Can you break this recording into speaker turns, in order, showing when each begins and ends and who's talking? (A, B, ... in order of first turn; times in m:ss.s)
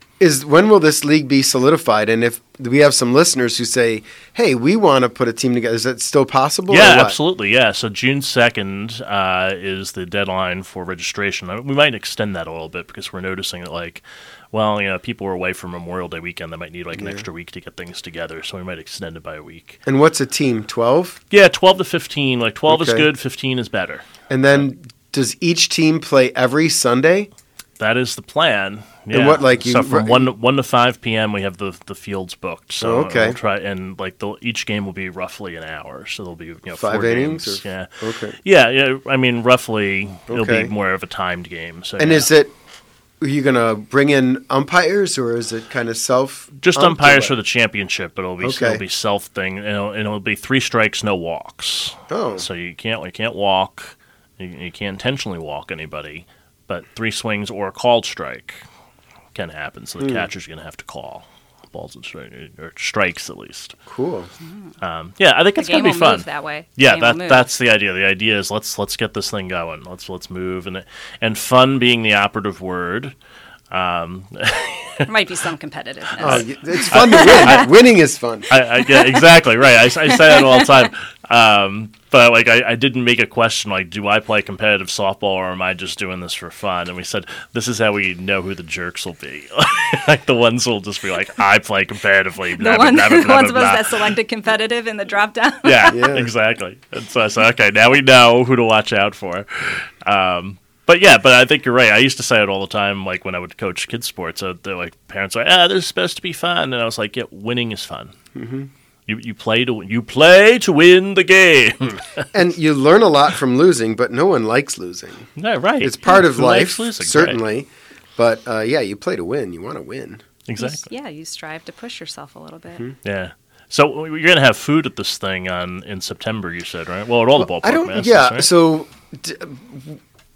0:00.2-0:07.2 A
0:06.7-0:19.8 B
0:17.0-0:17.2 A
0:19.9-0:21.2 A
0:21.3-0:24.1 B
0:22.7-0:23.1 A
0:24.3-0:27.3 A
0:27.8-0:42.3 B
0:29.1-0:30.3 A
0:32.8-0:33.4 A
0:36.8-0:38.4 A
0:40.3-0:40.7 A
0:42.0-0:42.5 A
0:43.2-0:47.3 A
0:46.6-0:58.6 B
0:48.4-0:48.8 A
0:52.1-0:52.5 A
0:59.3-1:03.8 B
1:00.0-1:00.3 A
1:03.9-1:04.3 A
1:04.4-1:04.7 C
1:04.8-1:06.2 B
1:05.6-1:07.5 C
1:06.8-1:13.1 B
1:13.7-1:15.1 B
1:15.0-1:17.7 C
1:16.2-1:17.7 B
1:16.2-1:18.5 A
1:18.5-1:34.1 B
1:18.9-1:19.2 C
1:20.0-1:20.7 C
1:32.6-1:36.1 C
1:35.6-1:48.1 B
1:35.9-1:36.3 A
1:48.4-1:48.7 A
1:49.1-1:52.3 B
1:52.3-1:55.3 A
1:55.4-1:57.4 B
1:55.8-2:00.2 A
2:00.5-2:00.9 B
2:00.6-2:02.9 C
2:03.0-2:08.5 B
2:07.4-2:10.0 A